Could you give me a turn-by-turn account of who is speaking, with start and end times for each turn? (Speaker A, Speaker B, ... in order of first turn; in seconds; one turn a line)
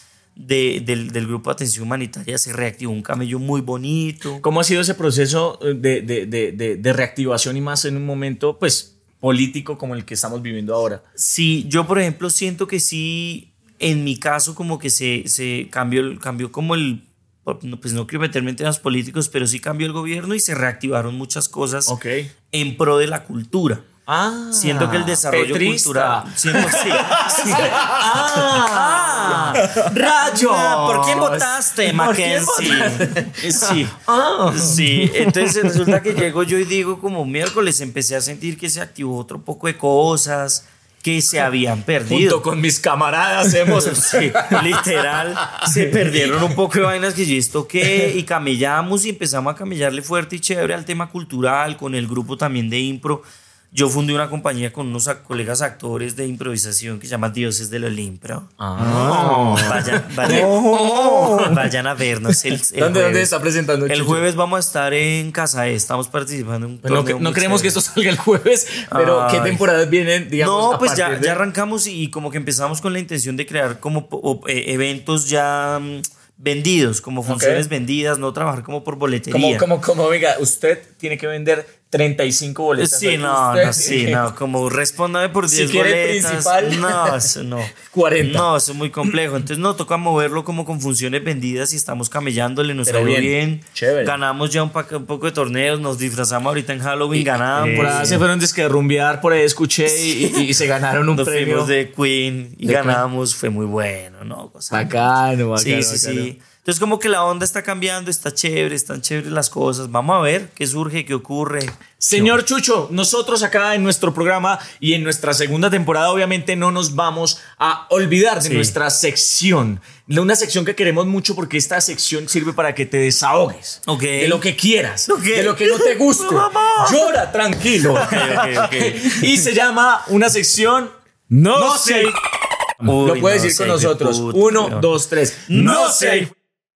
Speaker A: 0.3-4.4
Speaker B: 4.4-11.0
Speaker A: 11.2-21.9
Speaker B: 21.9-22.3
Speaker A: 22.5-23.9
Speaker B: 24.1-36.0
Speaker A: 24.5-42.4
Speaker B: 42.1-46.5
Speaker A: 43.8-63.3
Speaker B: 47.8-48.1
Speaker B: 58.6-61.6
Speaker C: 58.8-61.6
Speaker B: 62.8-64.2
Speaker A: 63.9-67.8
Speaker B: 66.8-71.4
Speaker A: 68.9-69.6
Speaker A: 70.4-79.7
Speaker B: 77.2-77.7
Speaker B: 79.3-84.3
Speaker A: 82.8-98.2
Speaker B: 85.5-88.5
Speaker B: 92.8-94.2
Speaker B: 97.1-101.7
Speaker C: 97.6-98.2
Speaker A: 101.1-112.3
Speaker B: 102.6-103.0
Speaker B: 104.7-106.3
Speaker B: 112.0-130.9
Speaker A: 118.4-118.7
Speaker A: 123.8-124.4
Speaker A: 125.1-127.1
Speaker A: 127.8-129.2
Speaker C: 131.3-132.2
Speaker B: 131.5-132.2
Speaker A: 132.8-134.9
Speaker B: 133.0-136.3
Speaker A: 135.4-136.3